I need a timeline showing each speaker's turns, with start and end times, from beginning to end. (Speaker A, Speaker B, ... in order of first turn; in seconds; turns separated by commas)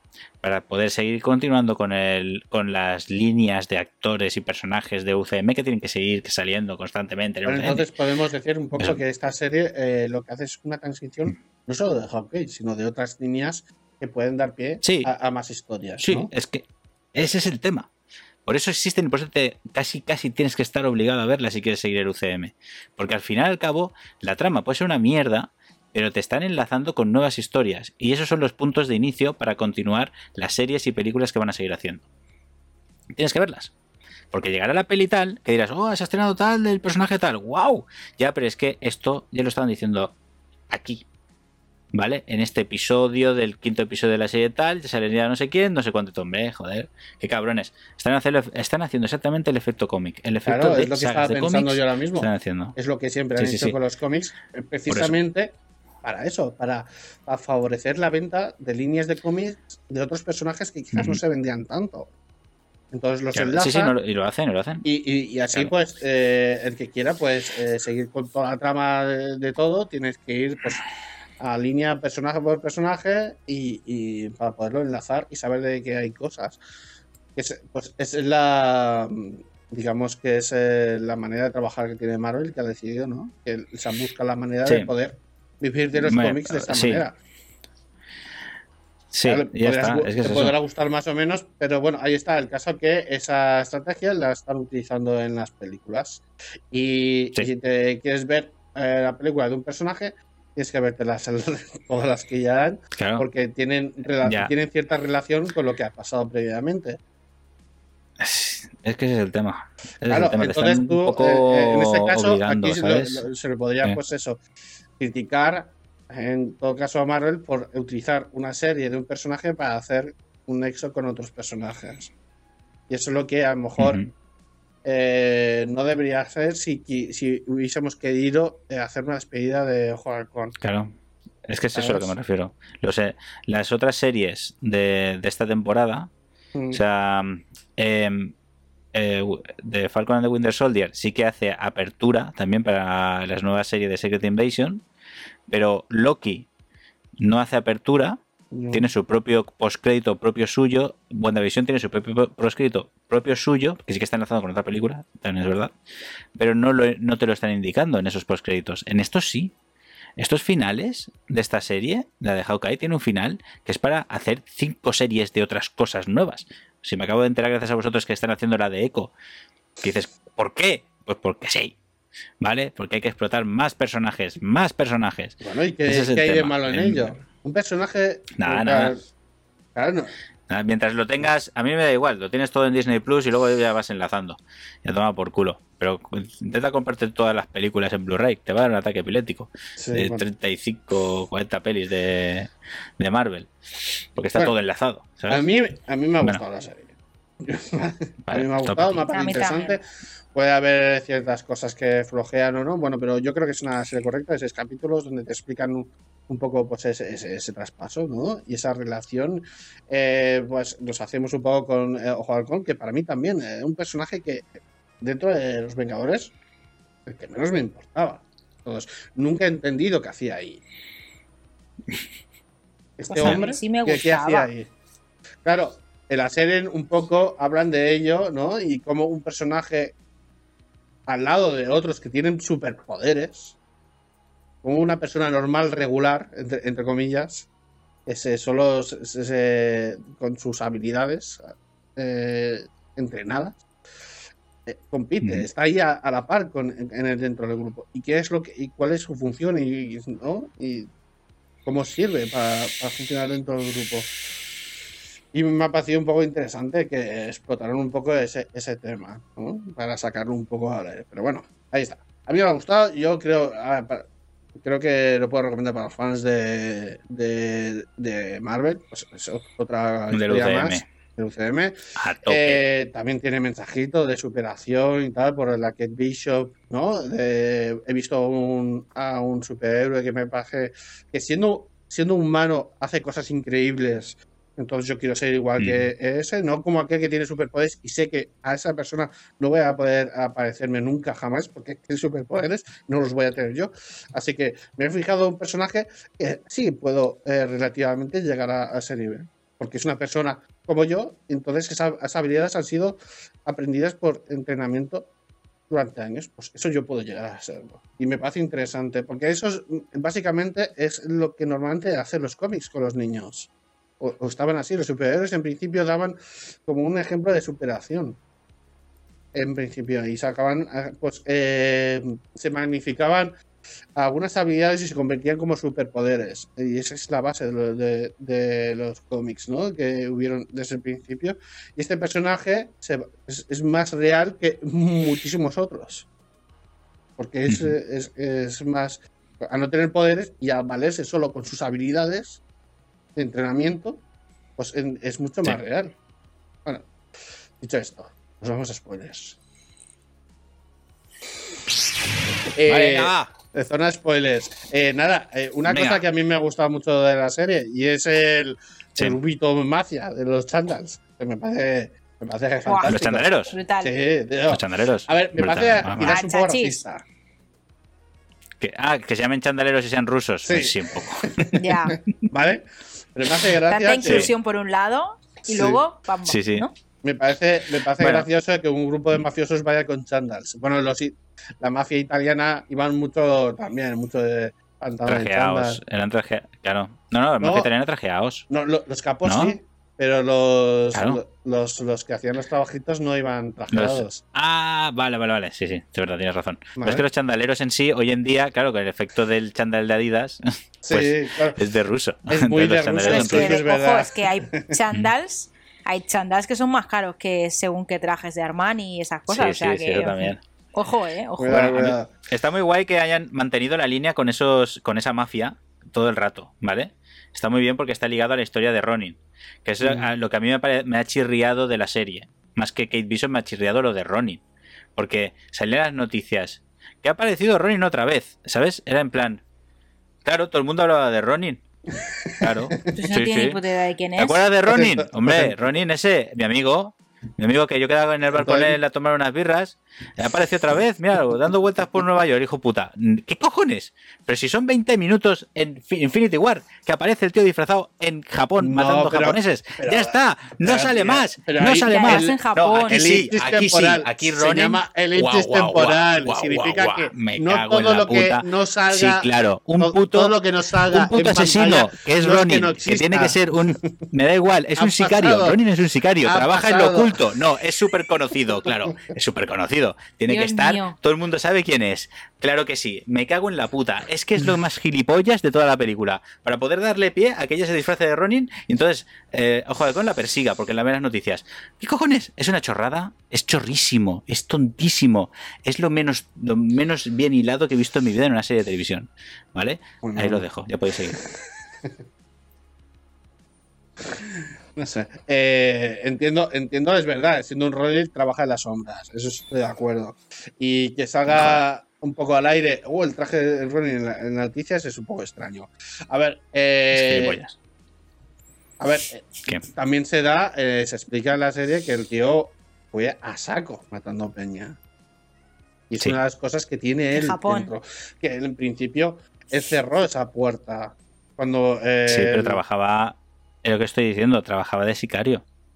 Speaker A: 0.4-7.9, Speaker B: 7.5-16.3, Speaker A: 14.8-15.1, Speaker A: 16.0-17.9, Speaker A: 18.4-32.0, Speaker A: 33.1-33.7, Speaker A: 34.3-40.1, Speaker A: 40.7-41.0, Speaker A: 41.9-52.7, Speaker B: 50.4-62.1, Speaker A: 53.4-53.8, Speaker A: 54.9-55.1, Speaker A: 60.9-61.2, Speaker B: 62.9-63.9, Speaker A: 63.3-64.9, Speaker B: 64.8-70.8, Speaker B: 71.4-76.6, Speaker B: 77.3-87.1, Speaker A: 85.9-87.0, Speaker A: 89.1-90.5, Speaker B: 89.2-107.0, Speaker A: 102.9-103.3, Speaker A: 104.2-104.5, Speaker A: 108.2-113.3, Speaker B: 110.1-114.4, Speaker B: 115.0-122.1, Speaker B: 122.9-124.0, Speaker A: 123.8-124.1, Speaker B: 124.8-130.6, Speaker A: 130.6-130.9, Speaker A: 131.5-136.1, Speaker B: 131.7-132.1, Speaker B: 136.6-136.8, Speaker A: 136.7-138.3, Speaker A: 138.9-144.8, Speaker A: 145.5-146.5, Speaker A: 147.2-148.2, Speaker B: 148.5-148.9, Speaker A: 148.7-155.7, Speaker A: 156.4-159.5, Speaker A: 160.2-169.1, Speaker A: 169.8-171.8, Speaker A: 172.4-177.2, Speaker B: 175.4-179.0, Speaker A: 178.4-178.9, Speaker B: 179.7-180.1, Speaker A: 180.5-195.4, Speaker B: 189.8-190.3, Speaker B: 195.3-199.8, Speaker A: 198.3-199.1, Speaker C: 199.1-199.8, Speaker B: 200.3-214.5, Speaker B: 215.0-216.3, Speaker B: 217.1-220.6, Speaker B: 223.0-224.7, Speaker C: 223.1-224.5, Speaker B: 225.4-229.9, Speaker B: 231.1-233.6, Speaker B: 234.6-237.5, Speaker B: 238.1-243.6, Speaker B: 244.7-250.9, Speaker B: 251.7-254.1, Speaker B: 255.3-264.1, Speaker B: 264.6-305.1, Speaker A: 270.1-270.8, Speaker A: 272.0-272.6, Speaker A: 285.6-285.9, Speaker B: 305.7-318.2, Speaker B: 319.3-323.3, Speaker B: 324.0-336.1, Speaker B: 337.2-342.4, Speaker A: 337.5-337.8, Speaker B: 343.1-344.0, Speaker B: 344.6-345.9, Speaker B: 347.6-349.4, Speaker B: 352.5-367.0, Speaker A: 352.7-353.3, Speaker A: 355.6-356.0, Speaker C: 362.6-363.9, Speaker A: 362.9-363.5, Speaker A: 364.5-366.1, Speaker C: 365.9-366.8, Speaker A: 368.6-371.6, Speaker B: 370.4-374.3, Speaker C: 371.6-372.0, Speaker C: 373.6-376.7, Speaker B: 375.4-375.8, Speaker A: 376.2-376.6, Speaker B: 377.0-385.8, Speaker A: 378.0-378.3, Speaker A: 385.1-388.4, Speaker B: 387.4-387.7, Speaker B: 388.5-394.2, Speaker A: 389.2-389.6, Speaker A: 390.9-391.2, Speaker A: 393.7-403.6, Speaker B: 396.8-397.0, Speaker B: 400.8-401.6, Speaker B: 402.3-404.7, Speaker C: 403.0-411.7, Speaker A: 409.3-410.4, Speaker B: 411.4-412.1, Speaker A: 411.5-424.4, Speaker B: 419.8-420.1, Speaker A: 424.9-429.4, Speaker A: 430.2-431.6, Speaker B: 432.0-432.9, Speaker A: 432.4-433.6, Speaker C: 432.9-434.4, Speaker A: 434.1-491.2, Speaker B: 434.7-435.5, Speaker B: 438.3-438.8, Speaker B: 448.6-459.3, Speaker C: 451.6-453.3, Speaker B: 459.8-463.9, Speaker B: 464.8-465.6, Speaker B: 466.2-467.3, Speaker C: 470.3-470.9, Speaker B: 490.0-490.4, Speaker B: 494.1-507.4, Speaker A: 501.3-501.6, Speaker A: 506.9-507.6, Speaker B: 508.8-514.8, Speaker B: 515.9-522.6, Speaker C: 517.1-517.7, Speaker A: 522.0-525.4